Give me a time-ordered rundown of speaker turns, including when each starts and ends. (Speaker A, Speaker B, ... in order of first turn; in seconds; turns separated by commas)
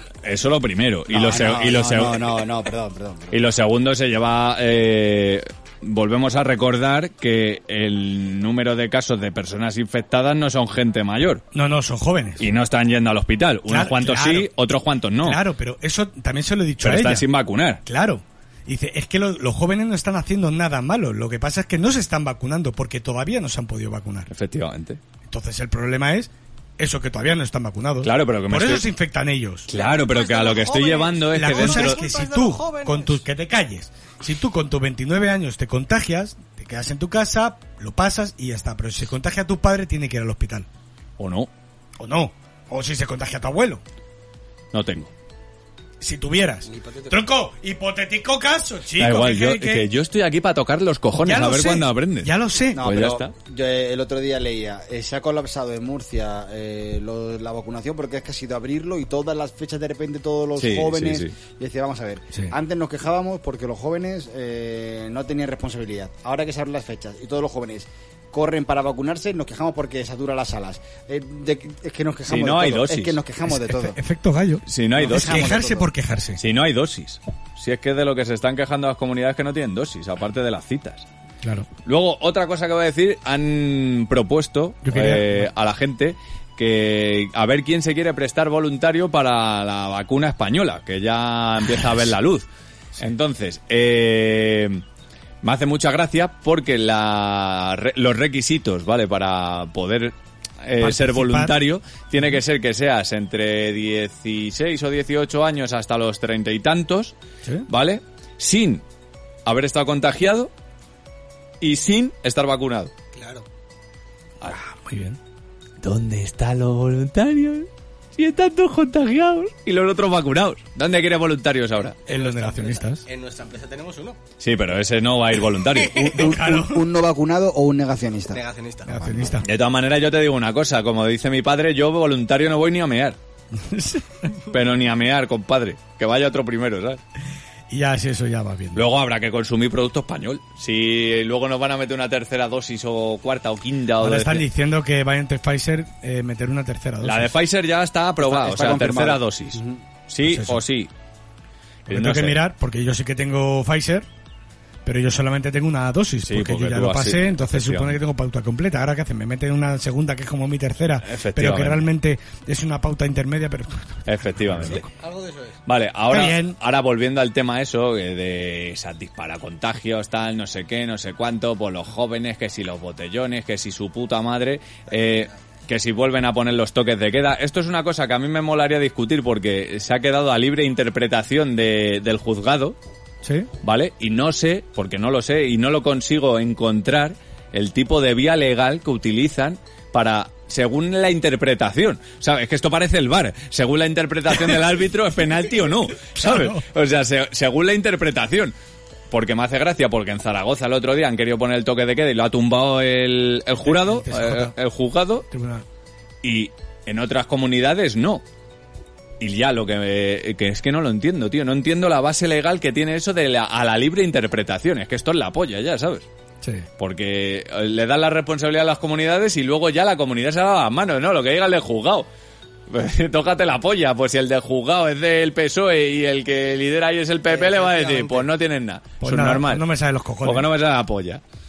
Speaker A: 0.2-2.4, Speaker B: 1.1-3.4, Speaker A: 3.3-11.4, Speaker C: 11.5-12.4, Speaker A: 12.4-15.4, Speaker C: 13.7-14.5, Speaker C: 15.2-17.2, Speaker A: 16.8-17.8, Speaker C: 17.9-24.3, Speaker A: 24.3-25.0, Speaker C: 25.3-29.7, Speaker A: 28.0-28.9, Speaker A: 29.7-32.0, Speaker D: 29.7-33.2, Speaker C: 31.3-40.7, Speaker A: 41.2-41.5, Speaker C: 42.0-43.8, Speaker A: 44.7-45.1, Speaker C: 46.0-49.9, Speaker D: 46.6-47.3, Speaker A: 49.0-53.3, Speaker C: 51.2-52.9, Speaker B: 52.7-74.0, Speaker A: 60.6-61.3, Speaker A: 72.3-73.2, Speaker C: 73.5-76.4, Speaker A: 74.7-75.5, Speaker B: 75.0-75.9, Speaker A: 76.4-81.0, Speaker C: 81.4-81.7, Speaker A: 81.8-92.5, Speaker C: 84.8-85.5, Speaker A: 93.0-94.8, Speaker A: 95.4-107.1, Speaker C: 100.8-101.5, Speaker A: 107.7-108.8, Speaker A: 109.5-110.5, Speaker A: 111.6-112.9, Speaker D: 113.1-113.5, Speaker C: 114.5-115.2, Speaker A: 115.8-122.0, Speaker D: 122.0-124.2, Speaker C: 122.1-123.0, Speaker A: 124.4-126.0, Speaker D: 125.6-126.2, Speaker B: 125.9-128.4, Speaker C: 126.1-126.9, Speaker D: 128.3-129.4, Speaker C: 128.9-129.5, Speaker A: 129.4-133.2, Speaker C: 133.6-134.3, Speaker A: 134.5-137.0, Speaker C: 137.7-138.8, Speaker A: 138.7-144.4, Speaker C: 144.0-147.3, Speaker A: 147.0-150.9, Speaker B: 148.2-149.8, Speaker C: 150.2-150.6, Speaker A: 151.9-152.4, Speaker C: 151.9-154.1, Speaker C: 154.8-164.9, Speaker A: 156.2-158.0, Speaker A: 161.0-161.9, Speaker A: 164.1-164.8, Speaker D: 164.7-165.6, Speaker A: 165.7-182.8, Speaker C: 166.1-166.6, Speaker D: 174.9-175.3, Speaker C: 183.2-183.5, Speaker A: 183.6-198.5, Speaker C: 196.1-196.6, Speaker A: 199.1-205.2, Speaker C: 203.6-204.5, Speaker C: 205.3-205.6, Speaker A: 206.2-208.2, Speaker A: 209.2-216.1, Speaker A: 216.8-222.1, Speaker A: 222.7-229.7, Speaker D: 227.3-228.3, Speaker C: 229.0-230.5, Speaker A: 230.2-231.2